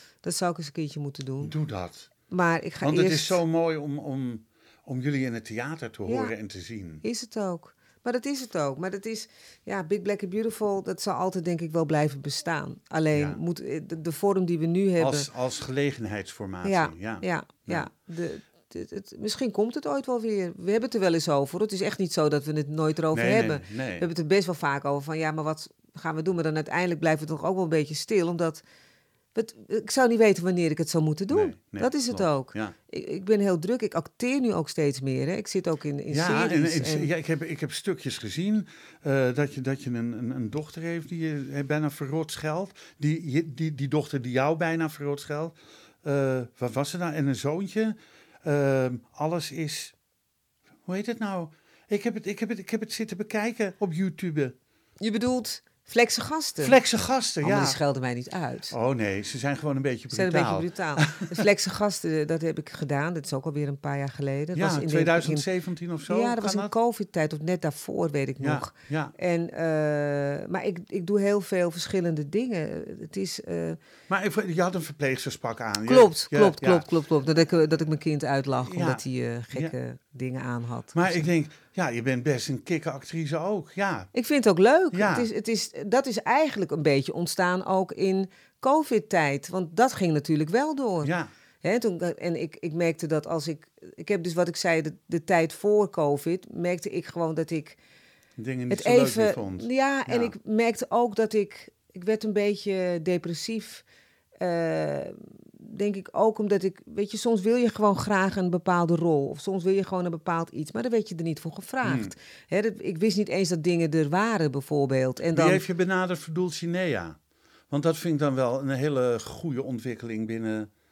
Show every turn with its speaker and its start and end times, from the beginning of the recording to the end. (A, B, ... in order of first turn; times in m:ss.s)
0:00.2-0:01.5 A
0:01.4-0:02.1 B
0:02.3-0:03.4 A
0:02.8-0:07.0 B
0:06.1-0:06.3 A
0:07.0-0:15.3 A
0:13.1-0:13.4 B
0:15.0-0:17.9 B
0:16.6-0:28.6 A
0:23.1-0:24.1 B
0:29.3-0:37.1 A
0:31.3-0:32.7 B
0:36.1-0:49.9 B
0:50.9-0:54.6 B
0:55.0-0:56.8 A
0:56.6-0:57.8 B
0:57.4-0:58.7 A
0:58.7-1:01.4 B
1:00.1-1:05.4 A
1:04.6-1:06.7 B
1:06.1-1:13.8 A
1:08.4-1:09.1 B
1:14.1-1:16.9 B
1:15.8-1:21.3 A
1:18.6-1:19.7 B
1:20.9-1:24.1 B
1:24.1-1:37.8 A
1:24.9-1:25.3 B
1:31.0-1:31.3 B
1:38.4-1:40.3 B
1:38.7-1:43.8 A
1:44.4-1:55.6 A
1:51.8-1:52.1 B
1:55.3-1:57.2 B
1:57.7-2:00.7 B